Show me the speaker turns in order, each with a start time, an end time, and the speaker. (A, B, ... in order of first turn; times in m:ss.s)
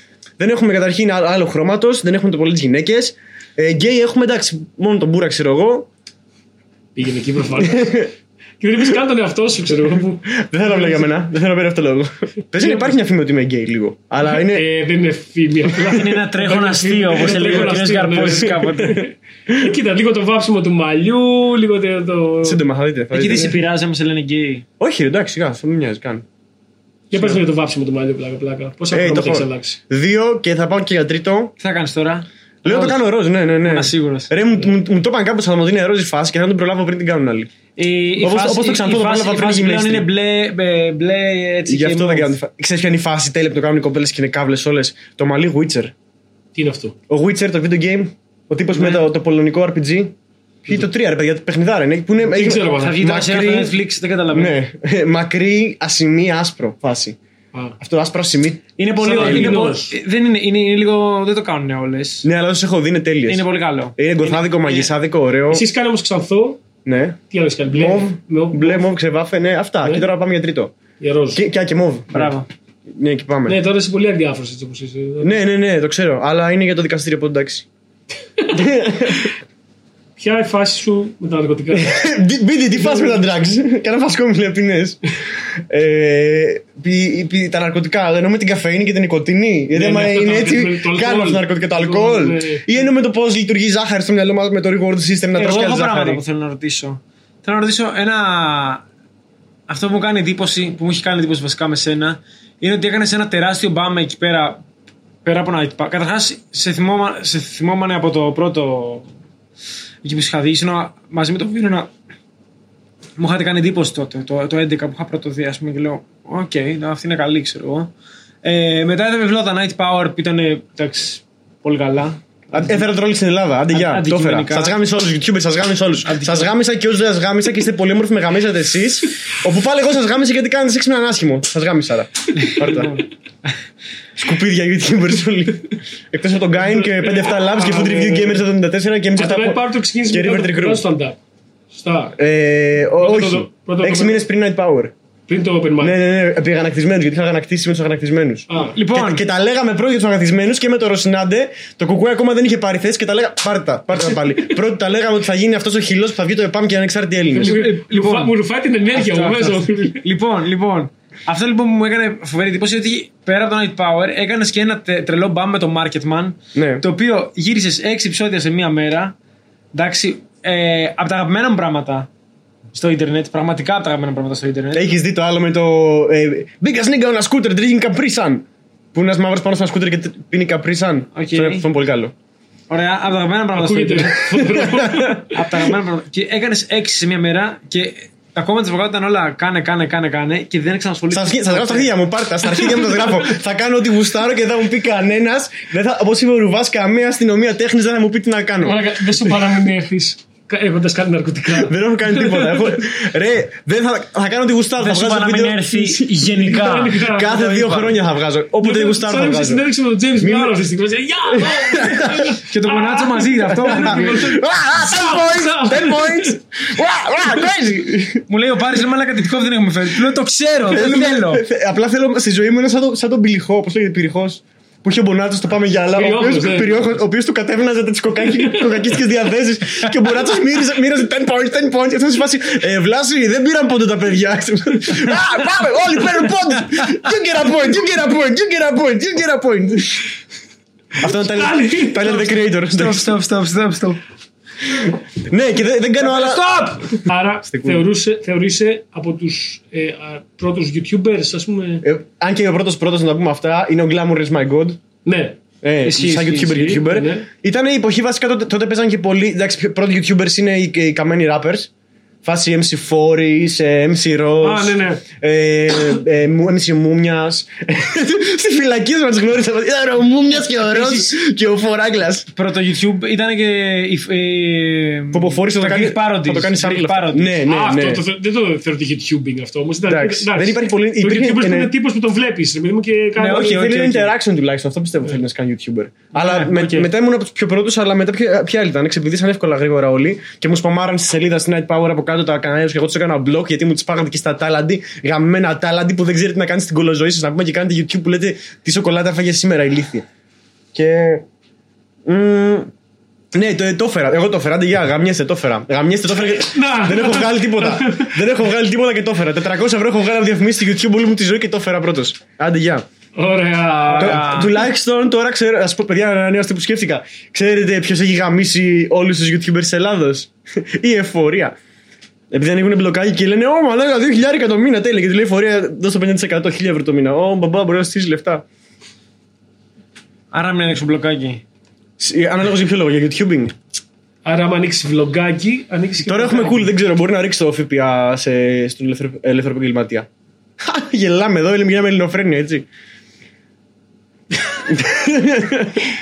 0:00.4-0:05.9 A
0:07.0-0:08.0 B
0:07.6-0:08.1 A
0:08.6-0:11.1 B
0:10.3-0:14.6 A
0:14.3-0:22.6 B
0:15.9-0:19.0 C
0:22.4-0:23.6 A
0:23.1-0:24.6 C
0:24.8-0:26.2 A
0:27.1-0:29.8 B
0:28.9-0:31.5 A
0:31.6-0:33.0 C
0:32.6-0:37.5 A
0:33.6-0:34.3 C
0:37.8-0:42.3 C
0:38.2-0:40.1 A
0:41.7-0:45.9 A
0:46.5-0:46.9 B
0:47.1-0:50.1 A
0:48.7-0:49.0 C
0:50.6-0:53.8 A
0:52.2-0:53.0 B
0:52.8-0:54.6 C
0:54.3-0:57.2 A
0:57.8-0:59.6 A
0:58.8-1:02.2 C
0:59.0-0:59.9 B
1:02.2-1:03.4 A
1:03.3-1:04.9 C
1:04.0-1:05.6 A
1:05.5-1:06.6 B
1:06.8-1:07.2 A
1:07.3-1:08.9 B
1:07.7-1:10.7 A
1:11.0-1:11.4 B
1:11.3-1:12.3 A
1:12.1-1:12.5 C
1:13.0-1:13.6 A
1:13.4-1:15.4 B
1:15.2-1:17.6 A
1:18.5-1:19.3 A
1:20.2-1:22.0 B
1:21.7-1:36.2 A
1:22.8-1:23.2 B
1:29.7-1:32.8 B
1:35.3-1:38.8 C
1:39.7-1:44.6 C
1:45.2-1:49.1 C
1:50.0-1:51.9 C
1:53.2-1:57.9 C
1:58.4-2:02.8 C
2:02.5-2:13.0 A
2:03.7-2:04.7 C
2:06.0-2:06.5 C
2:12.4-2:13.0 C
2:14.2-2:20.8 A
2:16.6-2:18.4 B
2:19.2-2:21.2 B
2:21.7-2:22.2 B
2:22.2-2:24.9 A
2:23.0-2:24.2 B
2:25.3-2:26.0 B
2:25.8-2:37.6 A
2:28.5-2:28.7 B
2:28.7-2:29.2 C
2:37.3-2:40.0 B
2:37.4-2:38.3 C
2:38.9-2:49.1 C
2:46.5-2:46.8 A
2:49.7-2:52.1 C
2:52.7-2:54.9 C
2:54.7-3:02.1 A
3:01.1-3:01.7 C
3:02.7-3:11.9 C
3:03.5-3:05.4 B
3:04.4-3:05.2 A
3:11.1-3:19.5 A
3:18.6-3:22.8 B
3:21.5-3:26.3 A
3:24.8-3:27.9 C
3:26.3-3:27.8 B
3:26.9-3:29.6 A
3:28.6-3:36.4 B
3:30.2-3:30.6 A
3:31.3-3:32.4 A
3:32.3-3:34.3 C
3:33.6-3:38.2 A
3:38.3-3:41.4 C
3:40.7-4:00.1 A
3:45.9-3:46.8 B
3:48.4-3:48.8 B
4:01.0-4:03.1 A
4:01.0-4:02.3 B
4:02.1-4:04.0 C
4:04.8-4:07.8 A
4:06.0-4:11.8 B
4:11.8-4:14.8 A
4:15.0-4:15.4 B
4:15.6-4:21.7 A
4:15.8-4:16.8 C
4:16.4-4:17.3 B
4:22.2-4:32.3 A
4:24.4-4:25.0 B
4:30.5-4:31.2 C
4:32.3-4:37.4 C
4:35.1-4:38.0 A
4:37.4-4:43.7 B
4:39.9-4:41.7 A
4:43.2-4:44.1 C
4:43.2-5:00.0 A
4:46.1-4:46.9 C
5:00.7-5:01.2 A
5:02.0-5:02.7 A
5:03.3-5:12.8 A
5:06.2-5:08.2 B
5:13.2-5:14.4 B
5:13.9-5:14.5 C
5:14.0-5:21.5 A
5:22.3-5:28.4 A
5:30.3-5:31.4 C
5:32.0-5:33.5 A
5:34.2-5:36.7 B
5:36.0-5:40.1 A
5:40.6-5:42.6 A
5:44.6-5:45.9 A